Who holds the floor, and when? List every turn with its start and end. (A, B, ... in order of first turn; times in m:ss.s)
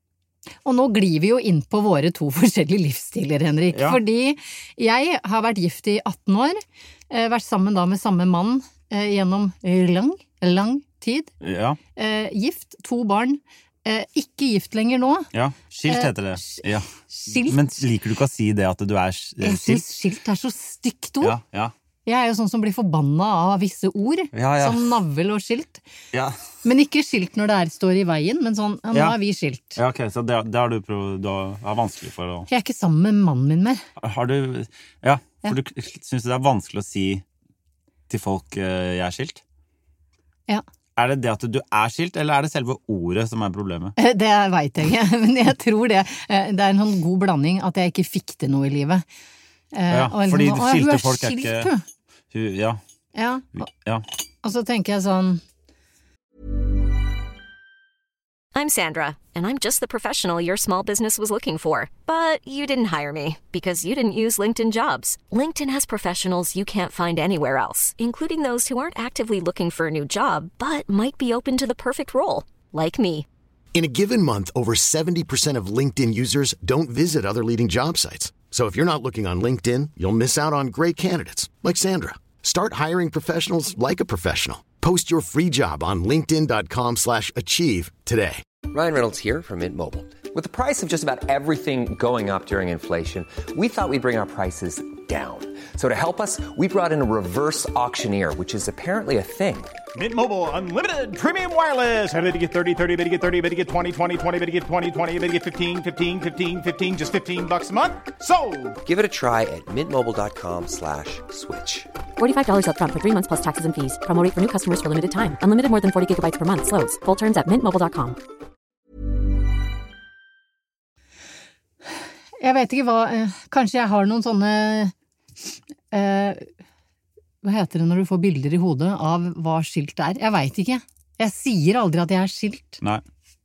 0:00.6-0:11.3 A
0:03.7-0:04.0 B
0:11.4-0:11.8 B
0:12.0-0:15.3 A
0:15.3-0:19.8 B
0:15.9-0:17.6 A
0:19.4-0:21.4 A
0:21.2-0:21.7 B
0:22.0-0:25.8 A
0:24.3-0:24.8 B
0:26.1-0:26.4 B
0:26.6-0:29.8 A
0:29.8-0:32.5 B
0:32.5-0:33.8 A
0:34.0-0:37.2 B
0:38.1-0:39.4 B
0:41.0-0:44.0 B
0:44.0-0:49.0 A
0:49.7-0:51.8 A
0:49.9-0:51.7 B
0:52.3-0:52.8 B
0:53.1-0:53.6 A
0:53.6-0:54.0 B
0:54.4-0:55.4 A
0:58.5-1:13.2 C
1:13.7-1:28.4 D
1:28.7-1:39.7 E
1:39.9-1:48.8 F
1:48.8-1:51.9 E
1:52.2-1:58.2 G
2:02.4-2:04.9 A
2:05.9-2:06.5 A
2:07.4-2:12.8 A